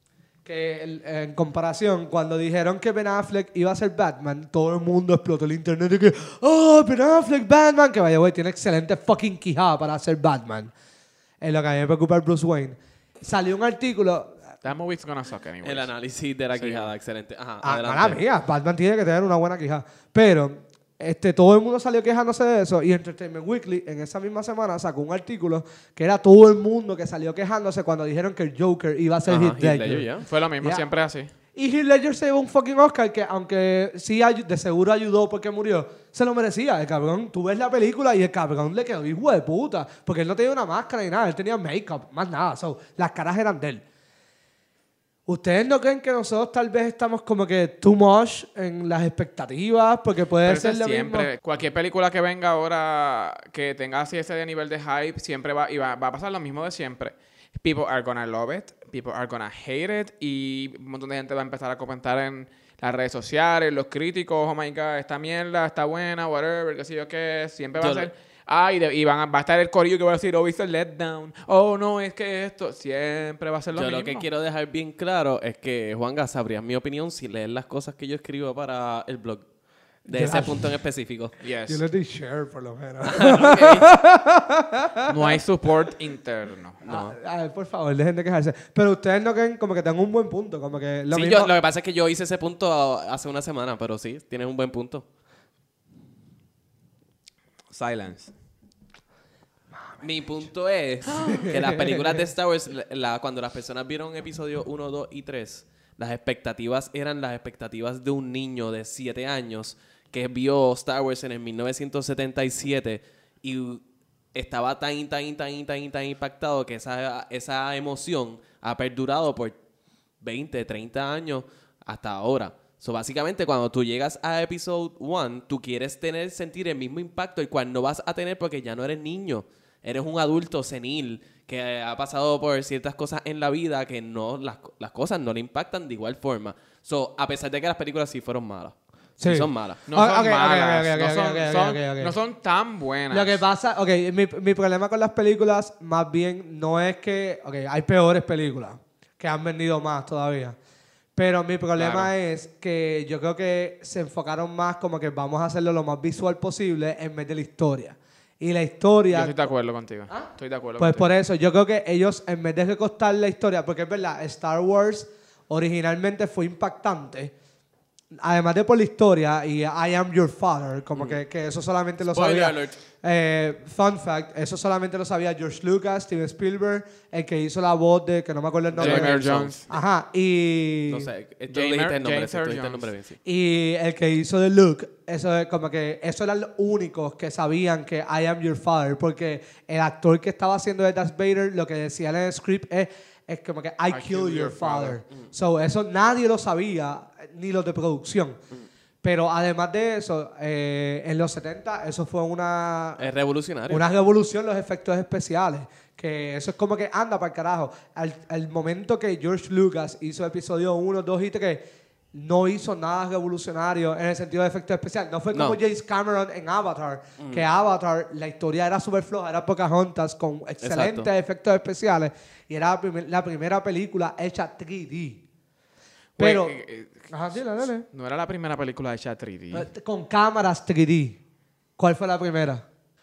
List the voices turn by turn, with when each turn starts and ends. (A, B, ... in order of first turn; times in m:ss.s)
0:00.4-0:10.7 A
0:11.4-0:14.4 A
0:14.6-0:15.9 B
0:15.6-0:18.2 C
0:16.5-0:16.9 B
0:17.6-0:30.8 A
0:29.3-0:30.2 C
0:30.2-0:31.3 B
0:31.6-0:43.8 A
0:45.3-0:51.3 A
0:50.4-1:14.2 B
1:07.8-1:08.1 C
1:13.7-1:19.4 C
1:20.1-1:21.3 C
1:20.1-1:20.8 A
1:21.4-1:21.8 B
1:21.7-1:25.4 A
1:23.0-1:23.9 C
1:25.0-1:26.8 B
1:26.8-1:27.1 C
1:26.8-1:31.5 A
1:31.1-1:35.0 C
1:37.7-1:38.3 B
1:40.0-1:53.8 C
1:41.1-1:41.5 B
1:41.3-1:42.2 A
1:54.3-1:59.6 C
2:00.2-2:19.8 C
2:19.2-2:22.1 A
2:19.9-2:23.4 B
2:23.1-2:30.6 A
2:31.2-2:39.5 A
2:31.8-2:32.1 B
2:39.1-2:41.1 B
2:40.1-2:47.3 A
2:48.2-3:01.1 A
2:52.0-2:52.8 C
2:58.8-2:59.6 C
2:58.8-2:59.6 B
3:00.9-3:03.2 C
3:01.5-3:02.9 B
3:03.2-3:18.4 A
3:13.9-3:15.0 B
3:19.0-3:23.1 A
3:23.0-3:23.8 C
3:23.7-3:31.6 A
3:32.1-3:45.2 A
3:35.3-3:35.6 C
3:37.2-3:37.5 C
3:40.6-3:41.1 C
3:46.2-3:47.1 B
3:46.2-3:46.6 A
3:47.1-3:47.8 A
3:47.8-3:49.7 B
3:49.5-3:51.2 A
3:51.8-3:52.6 A